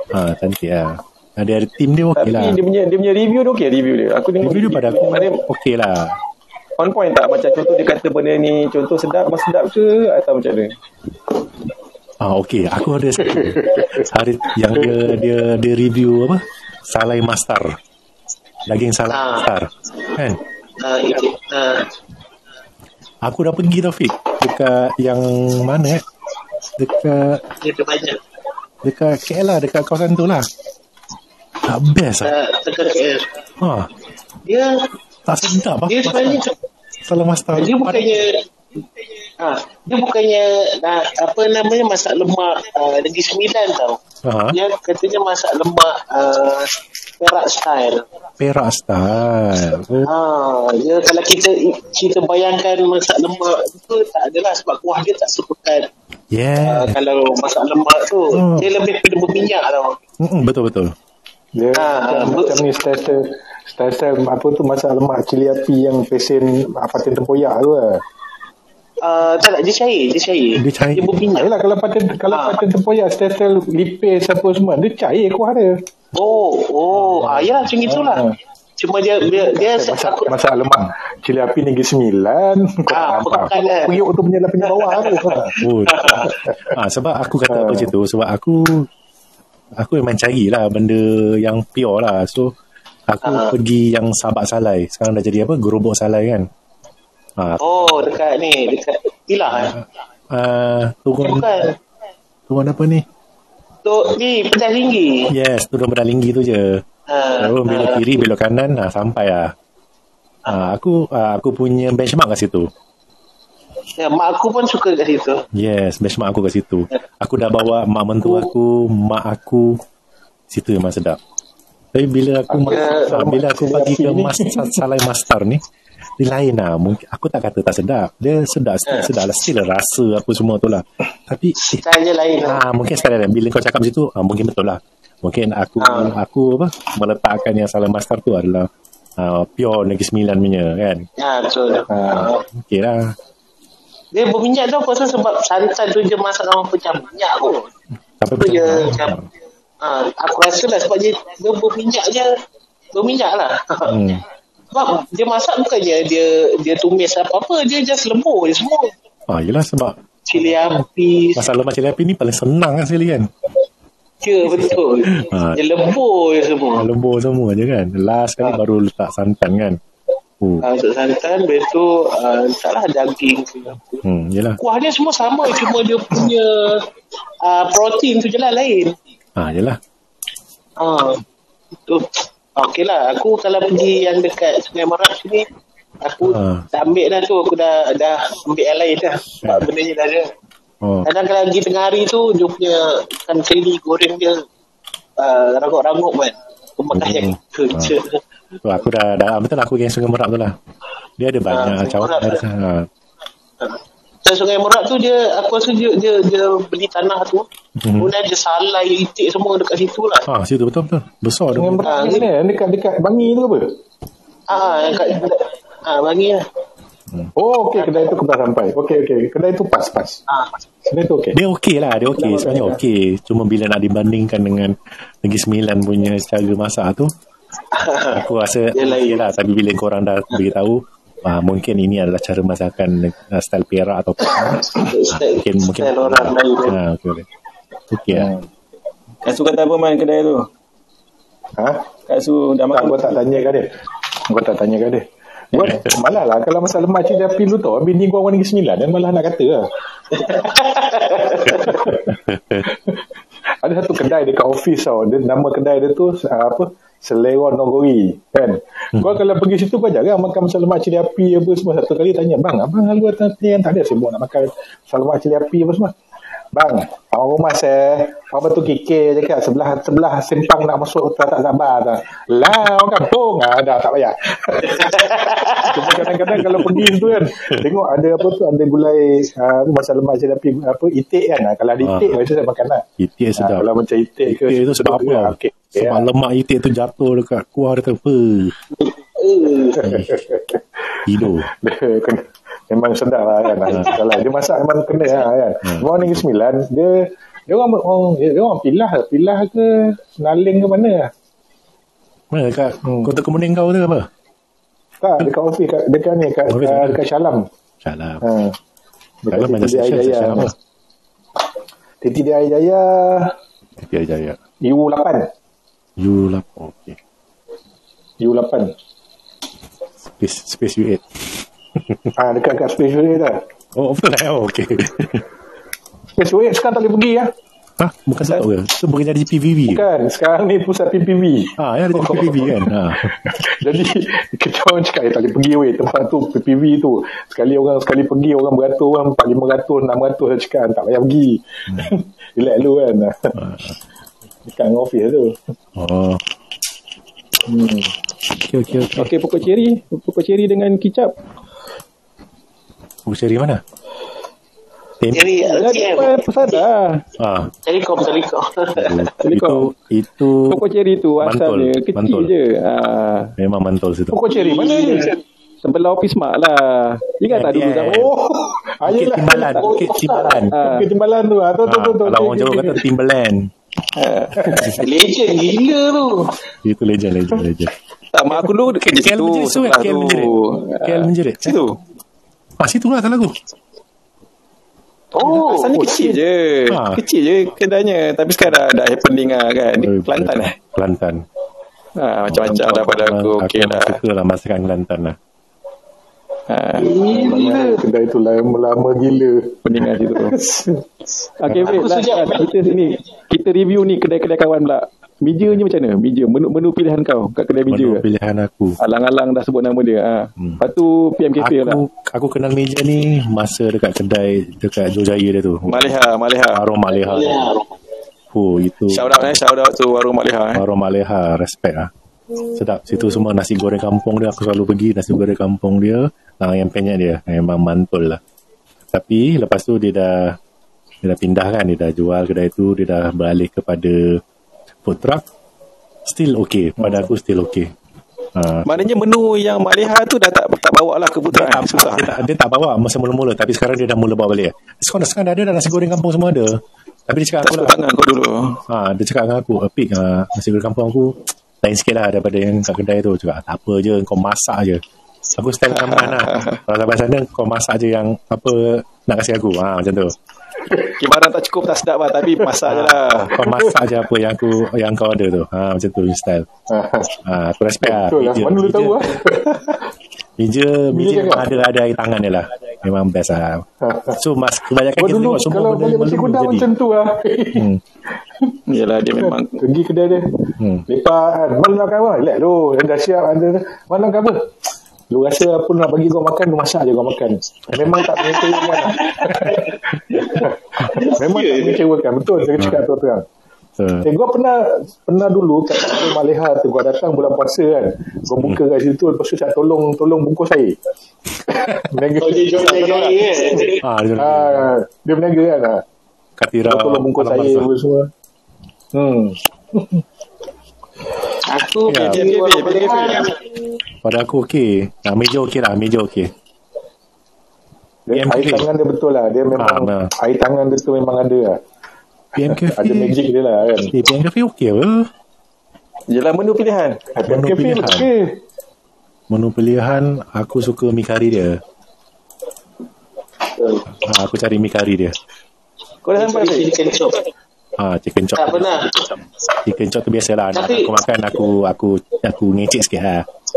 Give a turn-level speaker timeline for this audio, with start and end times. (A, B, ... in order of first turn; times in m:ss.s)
0:00.1-0:02.6 A
0:02.2-0:05.4 B
0:04.4-0:06.2 A
0:06.8-0:10.7 B
0:12.2-0:17.8 A
0:13.3-0:14.0 C
0:18.6-0:20.4 A
0:19.1-0:19.5 D
0:20.8-0:21.9 D
0:23.2-0:26.0 A
0:26.8-0:27.4 A
0:27.6-0:28.2 D
0:28.8-0:30.4 A
0:31.6-0:32.3 A
0:32.2-0:33.3 D
0:33.6-0:33.9 A
0:34.4-0:34.9 D
0:35.3-0:36.4 A
0:35.9-0:36.5 D
0:37.0-0:38.2 A
0:37.5-0:38.4 D
0:39.4-0:44.0 D
0:44.2-0:44.6 A
0:44.5-0:48.0 D
0:48.4-0:50.1 A
0:50.0-0:55.9 D
0:56.3-0:57.0 A
0:56.6-1:00.0 D
0:58.3-0:58.7 A
1:00.2-1:00.9 A
1:01.6-1:08.0 C
1:01.7-1:02.6 D
1:09.0-1:11.5 D
1:10.6-1:11.1 A
1:11.3-1:15.8 C
1:12.3-1:12.6 D
1:16.1-1:20.3 D
1:17.1-1:17.5 A
1:18.0-1:18.3 C
1:19.4-1:25.6 C
1:22.9-1:24.0 D
1:24.6-1:26.3 D
1:25.6-1:28.8 A
1:27.5-1:27.9 C
1:29.8-1:32.5 A
1:33.1-1:36.4 A
1:33.2-1:33.6 D
1:37.4-1:38.0 A
1:37.6-1:39.7 D
1:39.6-1:41.5 A
1:41.2-1:41.8 D
1:42.5-1:43.0 A
1:43.8-1:45.3 D
1:45.3-1:46.8 A
1:47.1-1:48.2 D
1:47.4-1:49.5 A
1:50.5-1:52.7 A
1:54.0-1:55.4 D
1:55.6-1:59.8 A
2:00.5-2:01.2 A
2:01.9-2:05.6 A
2:02.5-2:04.8 C
2:02.7-2:03.1 D
2:06.2-2:11.8 A
2:11.7-2:12.6 D
2:12.4-2:21.1 A
2:15.8-2:16.2 D
2:21.2-2:22.4 D
2:21.9-2:22.3 C
2:22.3-2:23.1 A
2:24.1-2:27.7 D
2:28.2-2:29.3 A
2:28.4-2:29.2 D
2:29.8-2:32.3 D
2:32.9-2:34.0 D
2:33.9-2:34.2 A
2:34.7-2:38.9 D
2:39.3-2:40.5 A
2:40.3-2:41.5 D
2:41.4-2:43.3 A
2:44.2-2:46.9 D
2:44.4-2:45.6 A
2:46.8-2:49.8 A
2:50.4-2:50.7 A
2:50.6-2:54.0 D
2:54.0-2:54.6 A
2:54.6-2:56.9 D
2:57.4-2:59.0 D
2:59.4-2:59.8 A
3:00.8-3:01.2 D
3:01.8-3:05.5 D
3:06.0-3:10.3 D
3:06.2-3:06.7 A
3:09.4-3:09.7 A
3:10.8-3:11.1 A
3:11.0-3:14.4 D
3:15.2-3:18.2 D
3:16.9-3:18.0 A
3:18.6-3:20.5 A
3:21.2-3:22.9 A
3:21.5-3:22.4 D
3:23.6-3:30.3 D
3:27.8-3:28.1 A
3:30.3-3:31.9 A
3:31.5-3:33.7 C
3:31.8-3:32.3 D
3:34.5-3:36.4 D
3:37.4-3:40.2 C
3:37.8-3:38.1 D
3:40.9-3:41.4 C
3:41.3-3:47.1 A
3:42.2-3:42.8 C
3:47.7-3:49.2 D
3:48.1-3:57.2 A
3:54.4-3:56.8 D
3:57.9-3:58.3 A
3:58.1-3:58.5 C
3:59.2-4:00.5 B
4:01.6-4:01.8 C
4:02.1-4:03.2 B
4:02.7-4:03.7 C
4:04.3-4:09.6 C
4:10.2-4:11.7 D
4:11.5-4:12.1 C
4:12.0-4:12.6 A
4:12.7-4:12.9 C
4:13.6-4:25.9 C
4:26.5-4:35.0 C
4:34.8-4:35.9 D
4:35.6-4:42.8 C
4:36.5-4:37.6 A
4:41.8-4:42.2 A
4:43.0-4:43.6 A
4:43.4-4:46.0 C
4:44.3-4:48.6 A
4:48.8-4:50.0 D
4:49.8-5:01.1 C
4:51.0-4:51.5 A
4:55.6-4:56.2 A
5:02.3-5:04.1 A
5:02.8-5:03.1 C
5:05.0-5:07.5 C
5:06.5-5:07.0 A
5:07.8-5:08.2 A
5:08.2-5:08.6 C
5:09.2-5:10.5 C
5:09.3-5:10.5 A
5:12.0-5:13.3 C
5:13.8-5:14.4 A
5:14.6-5:15.3 C
5:16.0-5:17.0 A
5:18.2-5:18.7 C
5:20.1-5:22.1 A
5:22.2-5:23.4 C
5:23.8-5:25.2 A
5:26.2-5:27.3 C
5:27.8-5:29.8 A
5:29.7-5:43.4 C
5:31.6-5:33.2 A
5:43.4-5:43.7 A
5:44.4-5:45.5 C
5:45.8-5:46.2 A
5:47.5-5:47.9 C
5:48.4-5:49.1 A
5:49.0-5:51.1 B
5:53.1-5:53.6 A
5:55.0-5:55.3 A
5:55.1-5:56.6 D
5:55.5-5:57.0 B
5:57.2-5:57.5 A
5:57.6-5:59.1 D
5:58.8-6:00.6 A
5:59.2-5:59.7 B
6:00.5-6:03.3 B
6:01.2-6:02.3 A
6:03.4-6:04.2 A
6:04.1-6:05.2 C
6:04.3-6:05.2 D
6:05.6-6:08.1 B
6:07.3-6:08.1 A
6:07.9-6:12.8 C
6:08.8-6:10.6 A
6:09.4-6:09.7 B
6:09.6-6:10.4 D
6:10.4-6:10.9 B
6:11.6-6:13.5 A
6:13.9-6:14.7 B
6:14.4-6:14.7 C
6:14.8-6:16.4 D
6:16.6-6:17.7 A
6:18.1-6:21.8 B
6:18.3-6:21.6 A
6:22.6-6:23.3 A
6:25.1-6:25.8 D
6:25.2-6:30.5 B
6:25.7-6:26.2 C
6:26.7-6:27.0 A
6:29.8-6:31.2 A
6:32.0-6:34.0 B
6:32.3-6:35.2 A
6:36.5-6:37.6 B
6:36.8-6:37.7 D
6:37.1-6:40.8 C
6:39.6-6:40.4 B
6:41.4-6:48.0 B
6:41.5-6:41.8 A
6:41.7-6:42.5 D
6:47.7-6:48.8 A
6:48.8-6:51.8 B
6:51.4-6:57.5 A
6:55.7-6:56.6 B
6:57.0-6:57.7 D
6:58.3-6:59.4 A
6:58.9-7:00.6 B
7:00.5-7:01.9 A
7:02.5-7:08.2 A
7:08.9-7:10.4 A
7:11.0-7:14.2 A
7:14.8-7:15.2 A
7:16.0-7:17.7 A
7:18.4-7:18.9 A
7:18.6-7:22.2 B
7:21.3-7:27.8 A
7:27.4-7:28.6 B
7:28.7-7:34.8 A
7:35.4-7:40.1 A
7:35.7-7:36.6 B
7:40.8-7:43.4 B
7:42.6-7:46.4 A
7:43.4-7:43.8 C
7:46.7-7:47.2 C
7:47.2-7:49.1 A
7:47.8-7:49.8 C
7:50.4-7:56.7 A
7:50.9-7:51.6 C
7:53.8-7:54.2 C
7:55.0-7:57.7 C
7:57.5-7:57.8 A
7:58.3-7:58.6 C
7:58.7-7:59.6 B
7:59.1-8:04.5 C
8:00.6-8:00.8 A
8:05.1-8:13.2 C
8:08.1-8:11.8 D
8:13.8-8:14.1 A
8:14.0-8:20.8 C
8:21.5-8:22.8 C
8:22.2-8:23.8 D
8:22.5-8:23.3 B
8:23.8-8:24.7 A
8:24.2-8:25.8 C
8:26.4-8:27.6 A
8:26.6-8:28.1 C
8:28.9-8:30.0 C
8:31.4-8:33.4 D
8:31.9-8:32.2 A
8:31.9-8:33.3 B
8:34.0-8:36.3 A
8:38.1-8:41.6 C
8:38.1-8:38.7 A
8:39.5-8:40.1 A
8:42.4-8:43.1 A
8:42.4-8:43.9 C
8:43.9-8:45.1 A
8:46.1-8:47.1 B
8:47.1-8:48.4 C
8:47.3-8:48.1 A
8:49.3-8:51.6 A
8:53.5-8:53.8 D
8:54.0-8:55.2 A
8:56.0-8:56.7 B
8:56.2-8:57.3 D
8:57.8-8:58.8 A
8:58.4-8:59.2 D
8:59.6-9:03.3 A
9:00.5-9:00.9 D